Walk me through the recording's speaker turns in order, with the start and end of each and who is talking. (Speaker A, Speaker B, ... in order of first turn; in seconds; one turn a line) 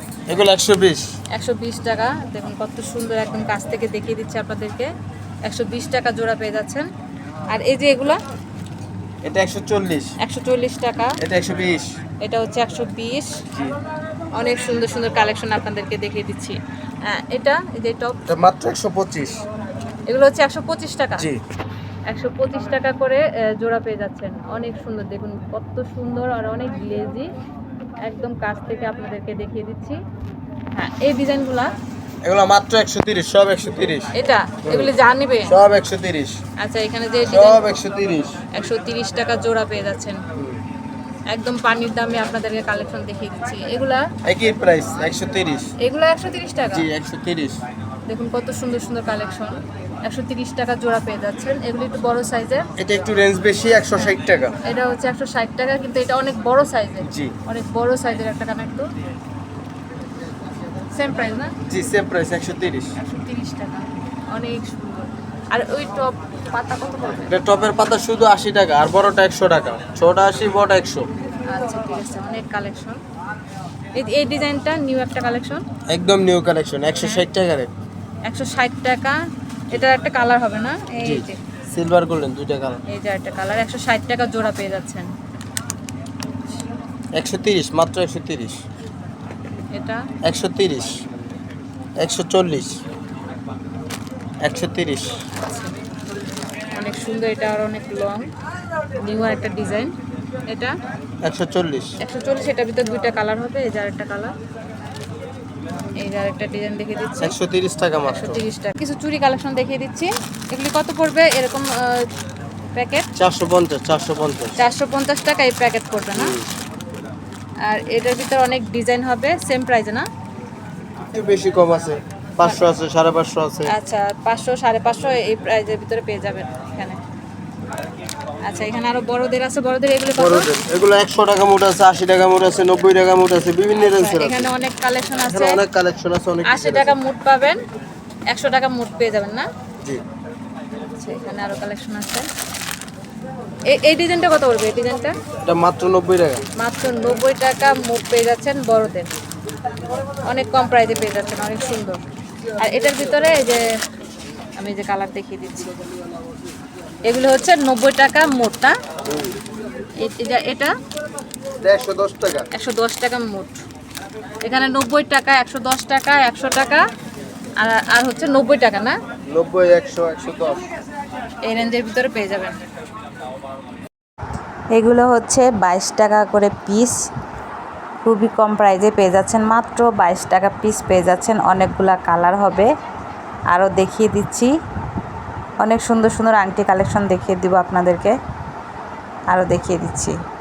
Speaker A: 0.3-1.1
Speaker B: 1.3-4.9
Speaker B: 5.5-6.9
Speaker B: 7.5-8.2
Speaker A: 9.2-10.1
Speaker B: 10.2-11.2
Speaker A: 11.2-11.9
Speaker B: 12.2-13.3
Speaker B: 14.3-18.2
Speaker A: 18.2-19.4
Speaker B: 20.1-21.3
Speaker B: 22.1-27.3
Speaker B: 28.0-30.0
Speaker B: 30.7-31.7
Speaker A: 32.2-34.1
Speaker B: 34.1-35.5
Speaker A: 34.6-34.9
Speaker A: 35.4-36.4
Speaker B: 36.6-37.6
Speaker A: 37.2-38.4
Speaker B: 38.5-40.2
Speaker B: 41.3-44.1
Speaker A: 44.2-45.7
Speaker B: 45.8-46.9
Speaker A: 46.7-47.6
Speaker B: 48.1-52.7
Speaker A: 52.8-54.5
Speaker B: 54.0-58.9
Speaker A: 57.0-57.3
Speaker B: 60.9-61.5
Speaker A: 61.6-62.9
Speaker B: 63.0-67.3
Speaker A: 67.3-71.0
Speaker B: 71.5-73.0
Speaker B: 74.0-75.6
Speaker A: 75.9-77.7
Speaker B: 77.0-77.3
Speaker B: 78.3-79.2
Speaker B: 79.7-81.4
Speaker A: 81.0-82.8
Speaker B: 82.9-85.1
Speaker A: 87.2-88.6
Speaker B: 89.7-90.0
Speaker A: 90.2-91.0
Speaker A: 92.0-92.8
Speaker A: 94.4-95.1
Speaker B: 95.4-95.7
Speaker B: 96.8-98.3
Speaker B: 99.0-99.9
Speaker B: 100.5-100.8
Speaker A: 101.2-101.9
Speaker B: 102.0-104.3
Speaker B: 106.0-107.3
Speaker A: 107.2-108.4
Speaker B: 108.0-112.1
Speaker B: 112.7-113.1
Speaker A: 113.2-114.5
Speaker B: 114.6-116.4
Speaker A: 116.1-116.5
Speaker B: 117.7-120.1
Speaker A: 121.1-123.7
Speaker B: 123.7-127.0
Speaker B: 128.4-130.5
Speaker A: 130.1-134.5
Speaker B: 133.7-135.6
Speaker A: 135.2-136.9
Speaker B: 136.4-137.6
Speaker B: 138.3-139.5
Speaker B: 140.9-142.3
Speaker B: 143.7-145.2
Speaker A: 145.4-146.4
Speaker B: 146.6-149.1
Speaker B: 150.3-152.0
Speaker B: 152.6-153.7
Speaker B: 154.6-155.7
Speaker B: 157.0-158.8
Speaker A: 159.1-159.3
Speaker B: 160.0-160.7
Speaker A: 161.6-162.5
Speaker B: 162.5-163.6
Speaker B: 164.4-166.8
Speaker B: 167.6-169.0
Speaker A: 169.3-170.6
Speaker B: 171.4-172.5
Speaker C: 174.7-177.0
Speaker C: 178.0-182.7
Speaker C: 183.5-184.5
Speaker C: 185.6-188.2
Speaker C: 189.3-190.1